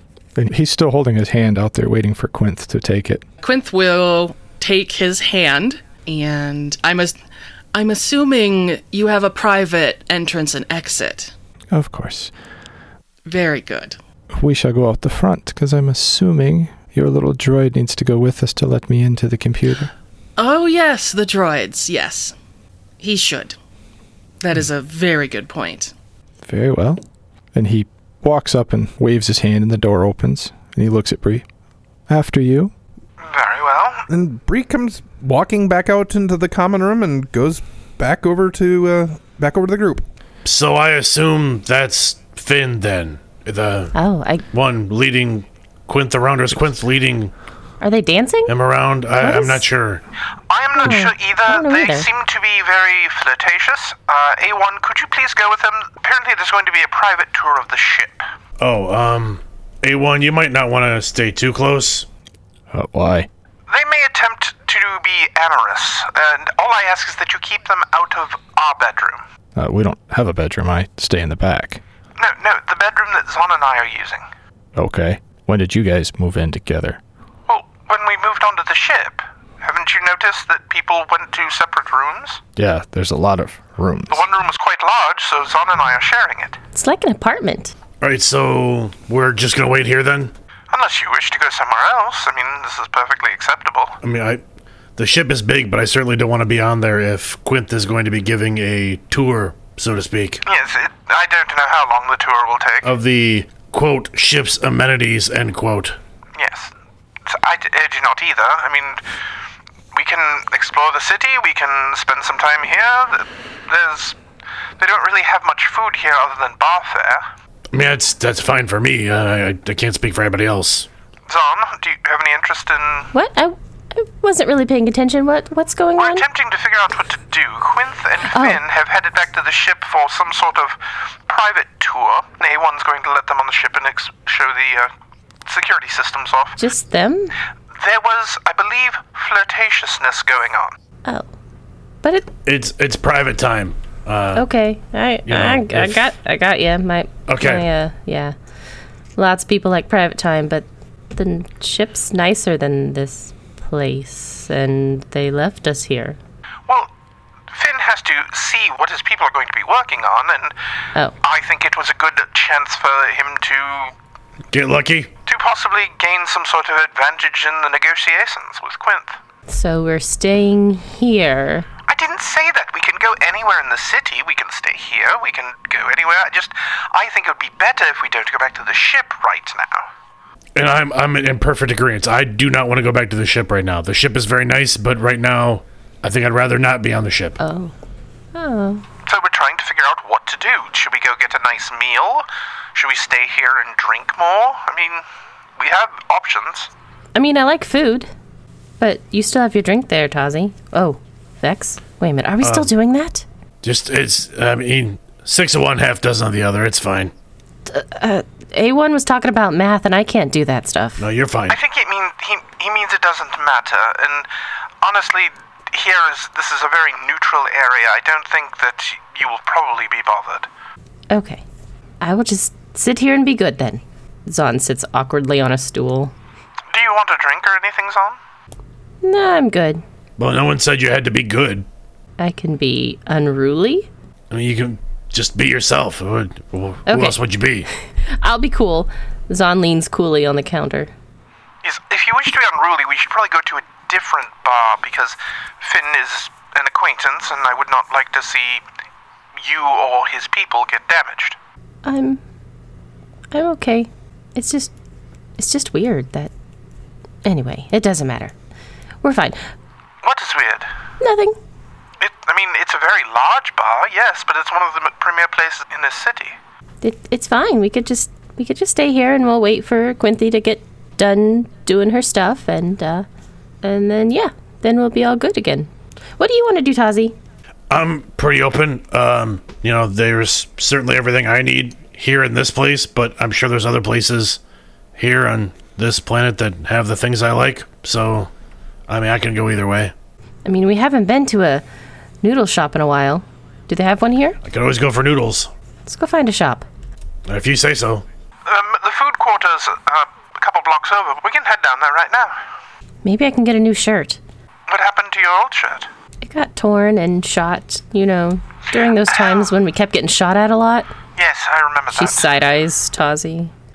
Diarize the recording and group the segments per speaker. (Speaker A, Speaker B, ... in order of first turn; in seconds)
Speaker A: 0.3-3.2, 11.7-12.3, 14.3-19.9, 26.4-27.0, 27.5-31.4, 32.1-32.7, 62.7-63.3, 69.5-71.8, 74.7-77.0, 82.5-84.2
Speaker B: 3.4-7.2, 7.7-11.3, 13.2-14.0, 20.4-22.3, 23.0-23.6, 24.4-25.9
Speaker C: 33.2-34.1, 50.5-58.2, 63.7-69.2, 72.2-74.2, 77.5-82.4, 84.1-86.6, 90.7-94.0, 100.5-102.9, 106.3-106.7, 107.2-109.0, 109.9-114.2, 114.8-117.2, 121.3-123.1, 126.0-134.9, 135.4-136.6, 137.7-140.8, 157.5-160.5, 161.2-163.9, 165.2-169.2, 171.9-179.9, 189.1-195.0, 195.6-196.7, 211.5-214.3, 214.8-220.5, 226.7-228.2, 241.6-248.6, 249.4-251.4, 260.0-260.7, 262.0-266.4, 298.4-302.3, 304.7-305.9, 309.1-309.5, 311.1-312.3
Speaker D: 34.1-40.0
Speaker E: 40.4-43.9, 44.5-47.3, 48.5-50.0, 58.6-62.0, 88.0-90.3, 94.0-94.4, 95.0-100.4, 102.8-106.0, 117.7-120.9, 142.4-144.4, 145.3-146.1, 147.3-147.7, 164.5-165.1, 180.5-187.4, 202.4-202.7, 203.6-207.1, 211.0-211.6, 230.2-231.7, 234.3-237.7, 277.7-284.4, 284.9-288.3, 288.9-289.9, 294.4-295.5, 297.3-298.0
Speaker F: 43.9-44.4, 47.8-48.5, 49.2-49.6, 50.8-52.1, 86.7-87.7, 123.1-126.2, 128.3-128.6, 136.6-137.3, 142.0-142.3, 144.3-148.3, 149.2-156.2, 169.5-171.7, 187.4-187.7, 188.3-188.8, 197.1-198.1, 198.8-203.2, 207.7-211.0, 221.1-221.4, 222.0-226.1, 229.0-229.8, 232.2-233.9, 236.9-237.2, 238.1-240.9, 251.8-252.2, 253.3-254.7, 255.4-256.3, 257.2-258.3, 259.0-259.4, 261.0-261.4, 266.8-273.1, 273.6-277.1, 290.4-291.6, 292.2-294.4, 295.9-296.6, 303.0-304.2, 306.2-310.9, 311.9-313.5